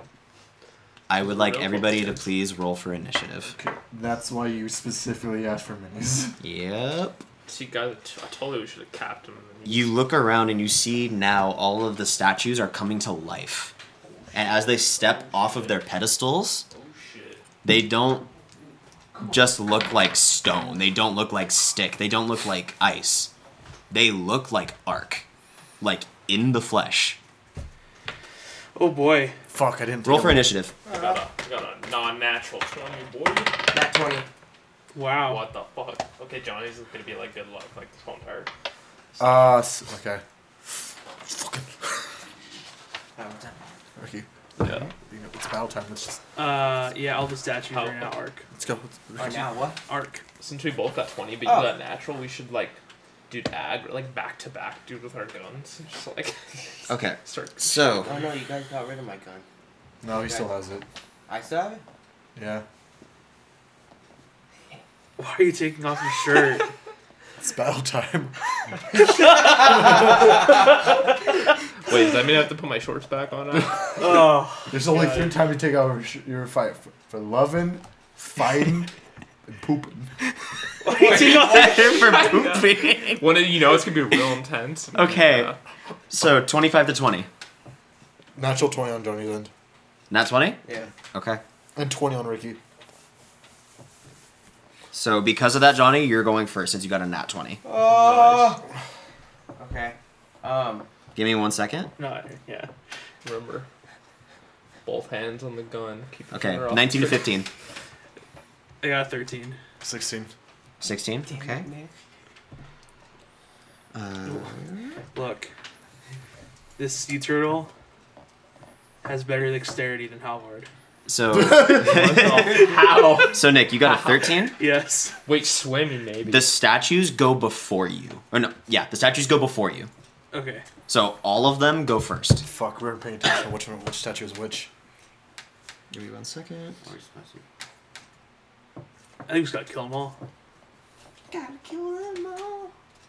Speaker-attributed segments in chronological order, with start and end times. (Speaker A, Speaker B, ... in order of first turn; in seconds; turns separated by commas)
Speaker A: 1.1-3.6, Speaker B: 1.2-2.3, Speaker C: 3.5-6.4, Speaker A: 6.4-7.2, Speaker B: 7.5-10.0, Speaker A: 9.7-13.7, Speaker A: 14.3-16.6, Speaker B: 14.8-15.8, Speaker B: 16.7-17.4, Speaker A: 17.6-18.3, Speaker A: 19.2-23.3, Speaker A: 23.9-25.2, Speaker A: 25.8-27.2, Speaker D: 28.8-29.4, Speaker C: 29.5-30.5, Speaker A: 30.1-30.8, Speaker E: 30.9-31.2, Speaker B: 30.9-33.6, Speaker E: 33.7-34.3, Speaker D: 34.9-35.4, Speaker B: 35.2-38.5, Speaker C: 39.2-40.2, Speaker C: 41.3-41.9, Speaker E: 43.2-43.8, Speaker C: 44.0-46.2, Speaker B: 44.6-44.9, Speaker D: 46.4-48.5, Speaker B: 47.7-48.1, Speaker C: 48.5-49.5, Speaker E: 49.2-49.8, Speaker D: 49.9-50.2, Speaker B: 50.4-58.3, Speaker E: 51.4-51.8, Speaker A: 56.9-58.1, Speaker E: 58.0-59.5, Speaker C: 60.0-60.9, Speaker E: 60.1-60.5, Speaker E: 61.3-61.8, Speaker C: 62.4-62.6, Speaker D: 65.2-66.7, Speaker C: 67.4-70.3, Speaker B: 71.9-74.2, Speaker D: 74.0-75.4, Speaker C: 74.7-78.9, Speaker C: 79.5-80.2, Speaker D: 80.8-82.0, Speaker E: 80.9-82.3, Speaker A: 81.0-83.5, Speaker B: 81.9-85.6, Speaker A: 84.9-85.5, Speaker A: 86.1-87.3, Speaker C: 88.4-89.5, Speaker A: 90.1-91.4, Speaker E: 90.6-90.9, Speaker C: 91.8-92.6, Speaker A: 94.9-97.6, Speaker E: 97.6-98.6, Speaker B: 97.8-98.6, Speaker E: 99.5-100.9, Speaker A: 101.2-101.9, Speaker D: 102.0-102.7, Speaker B: 103.2-103.7, Speaker B: 104.9-107.4, Speaker A: 106.3-107.5, Speaker D: 108.8-109.6, Speaker C: 109.8-110.3, Speaker A: 110.8-111.7, Speaker E: 111.2-111.9, Speaker A: 113.9-115.0, Speaker D: 115.1-115.5, Speaker D: 116.8-117.7, Speaker D: 119.0-120.7, Speaker A: 121.1-124.6, Speaker C: 121.3-121.8, Speaker B: 121.5-124.3, Speaker D: 122.4-123.3, Speaker D: 124.0-125.2, Speaker B: 125.3-126.5, Speaker A: 126.3-129.9, Speaker D: 130.3-130.7, Speaker A: 130.9-132.4, Speaker C: 132.4-134.7, Speaker A: 135.9-136.8, Speaker E: 136.8-137.4, Speaker D: 139.3-140.2, Speaker A: 141.3-142.7